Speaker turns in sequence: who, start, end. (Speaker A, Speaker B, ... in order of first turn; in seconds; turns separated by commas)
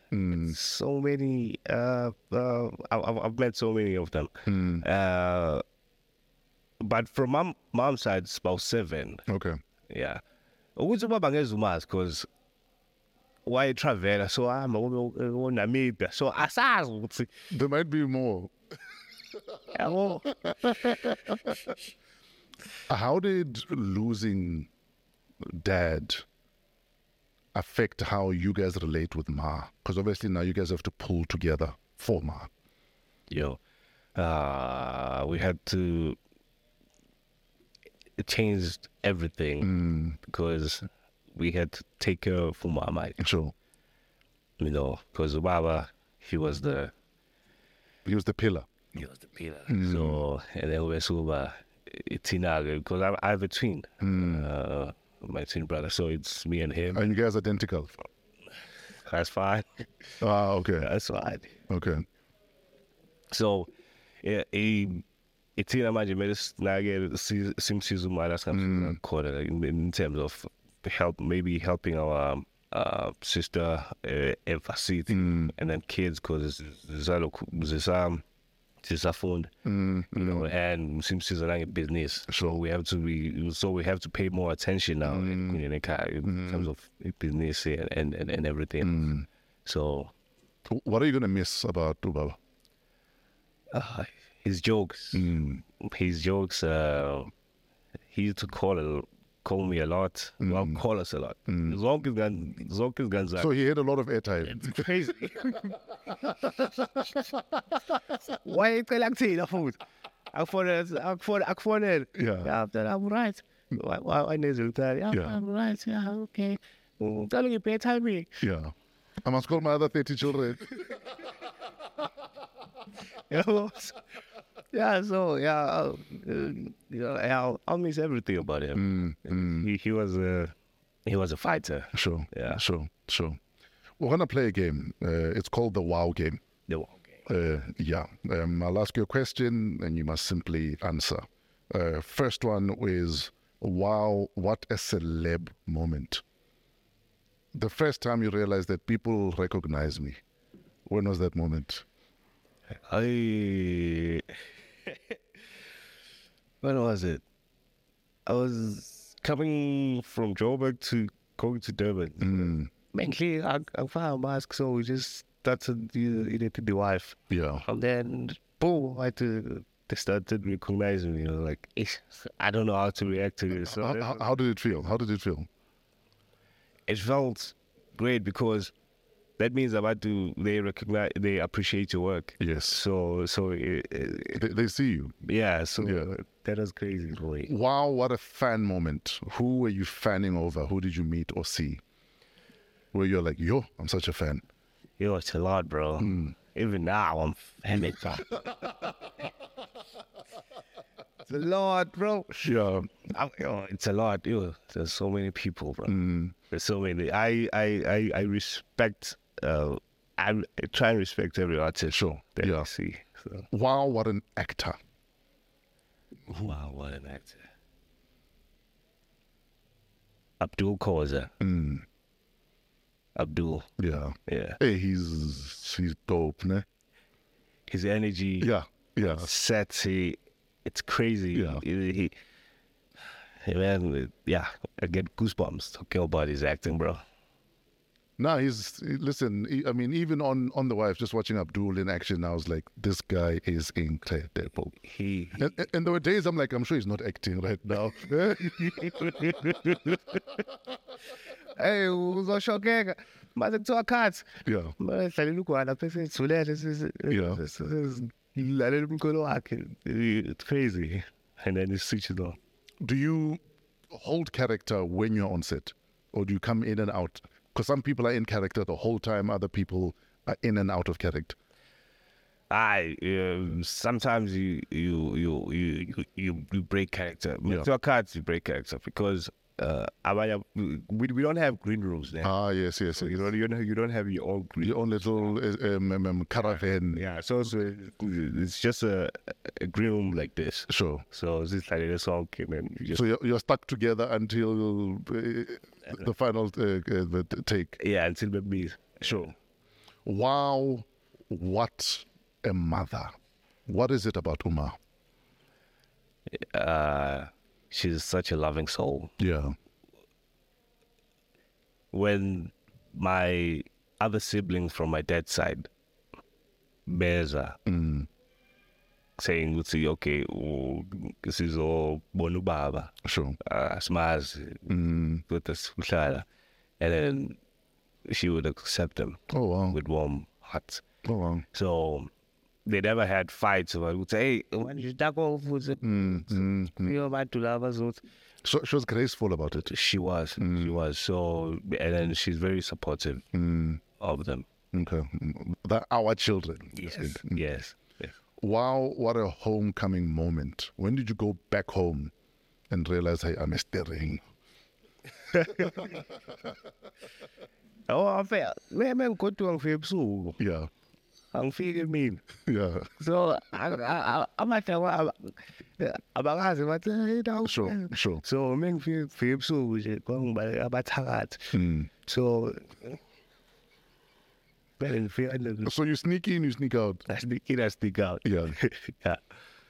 Speaker A: 0.1-0.6, Speaker B: 0.3-5.6, Speaker A: 4.5-4.8, Speaker B: 6.8-9.2, Speaker A: 9.3-9.6, Speaker B: 9.9-10.2, Speaker B: 10.8-12.3, Speaker B: 13.4-17.3, Speaker A: 17.5-18.5, Speaker B: 19.7-21.5, Speaker A: 22.9-24.7, Speaker A: 25.4-26.2, Speaker A: 27.5-32.5, Speaker B: 33.3-33.6, Speaker B: 34.1-36.2, Speaker B: 38.2-43.2, Speaker A: 39.6-40.2, Speaker A: 43.2-43.5, Speaker B: 44.6-46.9, Speaker A: 48.0-48.8, Speaker B: 48.9-57.0, Speaker A: 49.7-50.2, Speaker A: 54.0-54.5, Speaker A: 56.9-57.9, Speaker B: 59.1-59.9, Speaker A: 60.2-60.9, Speaker B: 60.8-61.5, Speaker A: 61.7-62.0, Speaker B: 63.3-63.7, Speaker B: 64.2-65.0, Speaker B: 65.5-78.2, Speaker A: 68.5-69.0, Speaker A: 75.1-75.5, Speaker B: 78.8-79.5, Speaker A: 79.6-80.5, Speaker B: 80.1-90.1, Speaker A: 82.3-82.6, Speaker A: 85.0-85.6, Speaker A: 86.2-86.7, Speaker A: 88.8-89.2, Speaker A: 90.7-92.4, Speaker B: 93.7-97.3, Speaker A: 95.1-95.6, Speaker B: 98.1-103.5, Speaker A: 100.4-100.8, Speaker A: 101.5-101.8, Speaker A: 103.4-105.3, Speaker B: 104.5-105.8, Speaker B: 106.4-107.2, Speaker B: 108.3-109.8, Speaker B: 110.3-118.4, Speaker A: 112.1-112.5, Speaker A: 118.4-120.9, Speaker B: 123.3-124.0, Speaker B: 124.7-130.5, Speaker A: 128.7-129.7, Speaker B: 131.1-132.6, Speaker A: 131.9-133.4, Speaker A: 134.0-136.4, Speaker B: 136.7-137.2, Speaker A: 137.3-146.2, Speaker A: 147.5-150.2, Speaker A: 150.8-151.8, Speaker B: 152.9-154.3, Speaker B: 154.9-155.2, Speaker B: 156.6-157.2, Speaker B: 158.2-174.2, Speaker A: 162.2-162.7, Speaker A: 167.3-167.6, Speaker A: 173.6-175.5, Speaker B: 176.9-178.7, Speaker B: 179.4-184.4, Speaker A: 182.4-182.8, Speaker A: 184.3-185.1, Speaker B: 185.2-187.5, Speaker A: 185.8-186.1, Speaker A: 187.4-191.8, Speaker A: 192.9-194.4, Speaker B: 195.0-198.4, Speaker A: 196.0-196.3, Speaker B: 201.2-202.5, Speaker A: 202.4-202.9, Speaker B: 203.0-213.4, Speaker A: 205.9-206.3, Speaker A: 211.9-212.7, Speaker A: 213.5-214.8, Speaker B: 216.3-217.4, Speaker B: 220.4-221.3, Speaker A: 221.4-221.8, Speaker B: 223.2-223.7, Speaker A: 223.8-226.6, Speaker B: 224.3-224.6, Speaker B: 227.7-228.5, Speaker A: 228.4-229.3, Speaker B: 229.0-232.1, Speaker A: 231.3-231.6, Speaker B: 233.4-237.0, Speaker A: 238.2-244.8, Speaker B: 244.8-245.5, Speaker A: 245.3-249.6, Speaker B: 248.5-250.0, Speaker B: 251.6-262.4, Speaker A: 254.4-254.7, Speaker A: 257.1-257.4, Speaker A: 262.8-271.4, Speaker B: 272.5-282.3, Speaker A: 282.2-283.2, Speaker B: 282.9-284.7, Speaker A: 284.6-287.0, Speaker B: 286.9-293.0, Speaker A: 290.7-291.0, Speaker A: 292.9-297.8, Speaker B: 297.8-299.3, Speaker A: 299.0-299.3, Speaker A: 300.0-303.1, Speaker A: 303.6-304.8, Speaker B: 306.3-309.1, Speaker A: 309.2-309.5, Speaker B: 311.9-315.7, Speaker B: 316.9-317.6, Speaker A: 317.6-318.1, Speaker B: 319.2-324.7, Speaker A: 323.0-323.4, Speaker A: 324.7-325.2, Speaker B: 325.3-326.2, Speaker B: 326.8-327.4, Speaker B: 328.1-330.8, Speaker A: 329.3-329.8, Speaker A: 331.0-331.4, Speaker B: 331.5-332.1, Speaker B: 332.6-338.0, Speaker A: 335.8-336.9, Speaker A: 338.4-339.7, Speaker B: 339.6-343.2, Speaker A: 340.4-340.8, Speaker A: 343.3-343.8, Speaker B: 343.9-344.5, Speaker A: 344.7-347.4, Speaker B: 346.7-348.1, Speaker A: 348.4-352.1, Speaker A: 352.7-354.2, Speaker B: 355.3-355.9, Speaker B: 357.9-360.4, Speaker A: 360.4-360.7, Speaker B: 361.3-362.2, Speaker A: 362.4-362.9, Speaker B: 363.0-373.0, Speaker A: 367.4-368.2, Speaker A: 371.5-371.9, Speaker B: 374.8-375.7, Speaker A: 375.6-377.0, Speaker B: 377.1-379.2, Speaker A: 378.2-378.6